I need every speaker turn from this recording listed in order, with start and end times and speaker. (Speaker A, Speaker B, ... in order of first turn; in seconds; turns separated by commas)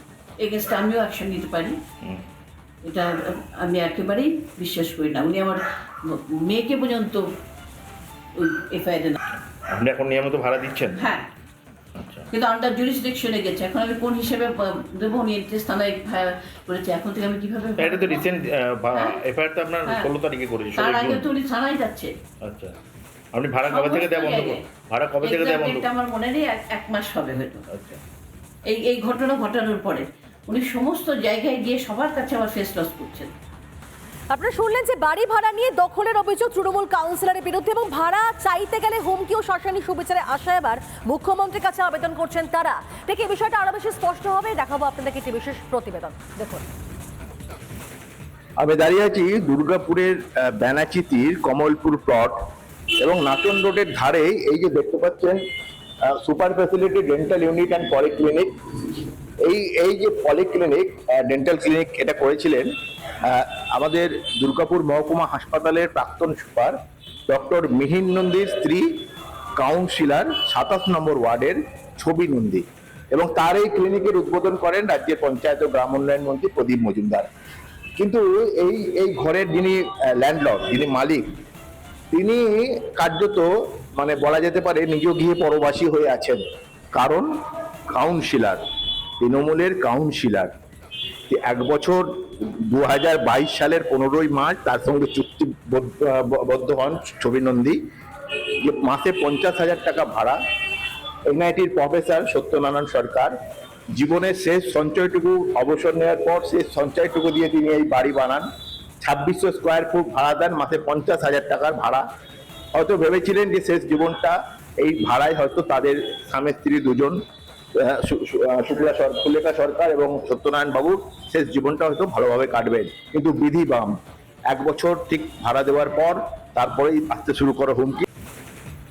Speaker A: 0.4-1.8, Speaker A: 2.9-5.6, Speaker A: 6.1-7.2, Speaker A: 8.4-9.2, Speaker B: 9.7-11.0, Speaker A: 10.9-11.3, Speaker B: 11.9-12.3, Speaker A: 12.3-18.2, Speaker B: 17.8-21.3, Speaker A: 18.9-19.2, Speaker A: 19.8-20.1, Speaker A: 20.7-22.1, Speaker B: 22.4-22.7, Speaker B: 23.3-25.9, Speaker A: 23.6-24.6, Speaker A: 25.2-27.6, Speaker B: 27.7-28.0, Speaker A: 28.7-33.3, Speaker C: 34.3-46.6, Speaker D: 48.6-52.4, Speaker D: 53.0-55.4, Speaker D: 56.1-62.7, Speaker D: 63.2-66.7, Speaker D: 67.3-68.8, Speaker D: 69.6-77.3, Speaker D: 78.0-81.2, Speaker D: 82.1-86.4, Speaker D: 86.9-87.3, Speaker D: 87.9-88.6, Speaker D: 89.2-90.5, Speaker D: 91.3-97.8, Speaker D: 98.6-100.4, Speaker D: 101.3-103.3, Speaker D: 103.9-108.4, Speaker D: 109.0-112.0, Speaker D: 112.7-117.2, Speaker D: 117.8-123.9, Speaker D: 124.5-128.0